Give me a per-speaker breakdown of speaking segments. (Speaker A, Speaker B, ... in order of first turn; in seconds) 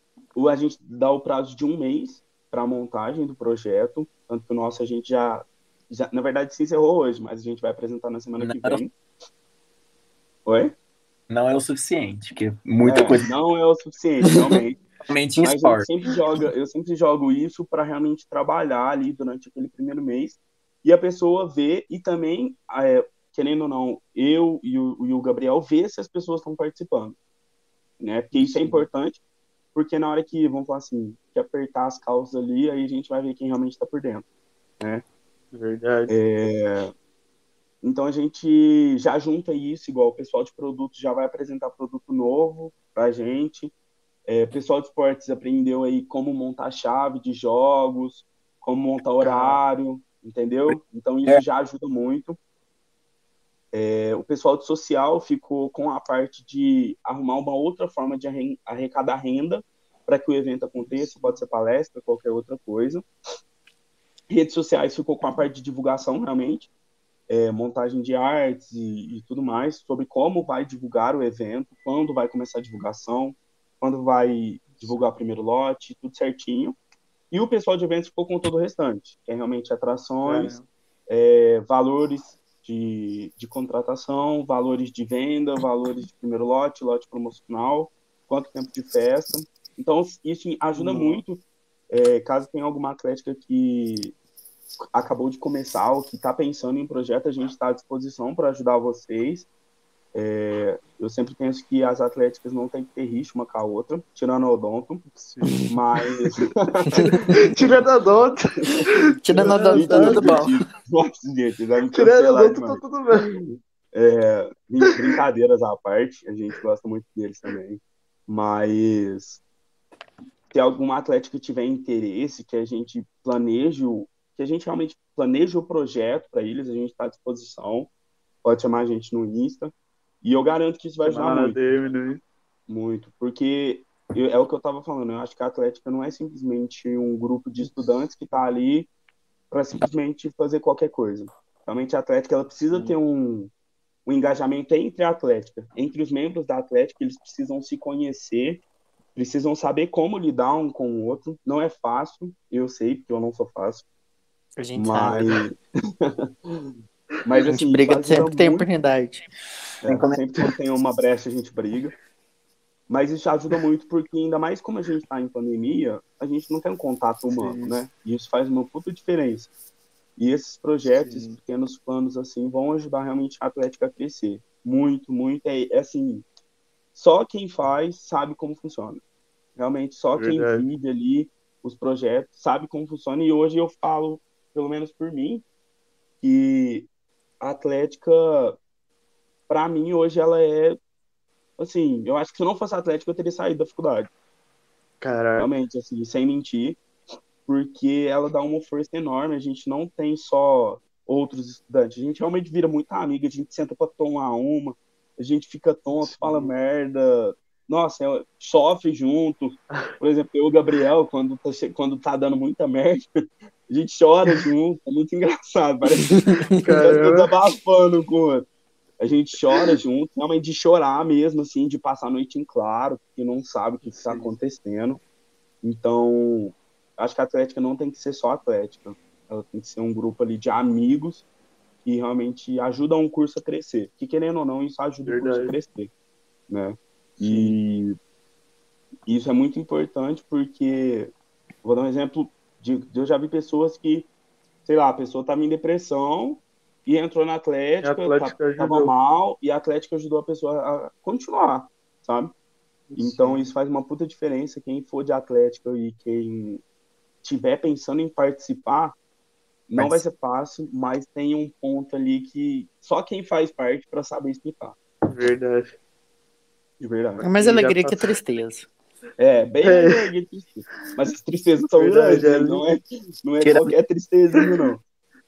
Speaker A: 0.3-8.9, 10.5-10.7, 12.8-14.8, 15.4-27.2, 28.0-29.2, 29.8-34.2, 36.1-36.9, 37.8-43.7, 44.3-52.4, 53.7-63.0, 64.3-66.7, 67.3-76.8, 77.3-80.5, 81.1-94.1, 94.9-99.5, 100.1-105.0, 105.7-107.8, 109.4-119.4, 120.5-127.9, 128.4-131.6, 132.7-138.9, 139.5-143.5, 144.1-148.6, 149.2-153.8, 154.8-156.7, 157.2-158.7, 159.8-161.9, 162.9-169.5, 170.2-176.3, 176.9-179.0, 179.6-185.4, 186.2-186.9, 187.4-188.6, 189.5-190.8, 191.6-194.1, 195.4-196.8, 197.5-213.1, 213.7-216.2, 216.8-218.5, 219.0-225.0, 225.6-231.2, 231.8-235.9, 236.5-237.9, 239.1-241.1, 241.6-244.1, 244.7-252.3, 253.0-256.6, 257.2-258.9, 259.7-264.8, 266.8-267.3, 269.2-274.8
Speaker B: 8.4-8.8, 11.3-13.3, 15.1-15.9, 50.7-51.4, 273.4-273.7
Speaker C: 28.3-28.9, 35.5-36.1, 49.2-49.6, 60.8-61.4, 74.8-75.1, 80.2-80.7, 90.7-91.2, 105.1-105.5, 107.3-110.5, 111.9-113.3, 131.0-132.2, 142.7-143.0, 167.3-167.8, 171.0-171.4, 180.2-180.7, 195.0-195.5, 205.9-206.5, 216.6-217.3, 223.8-224.3, 235.1-235.6, 237.2-237.6, 247.8-248.9, 252.9-253.5, 265.1-265.7, 267.4-268.1, 269.6-270.1, 271.8-272.6
Speaker D: 105.4-105.8, 107.0-107.4, 109.2-110.6, 154.6-155.4, 157.5-159.2, 216.0-216.8, 267.2-268.7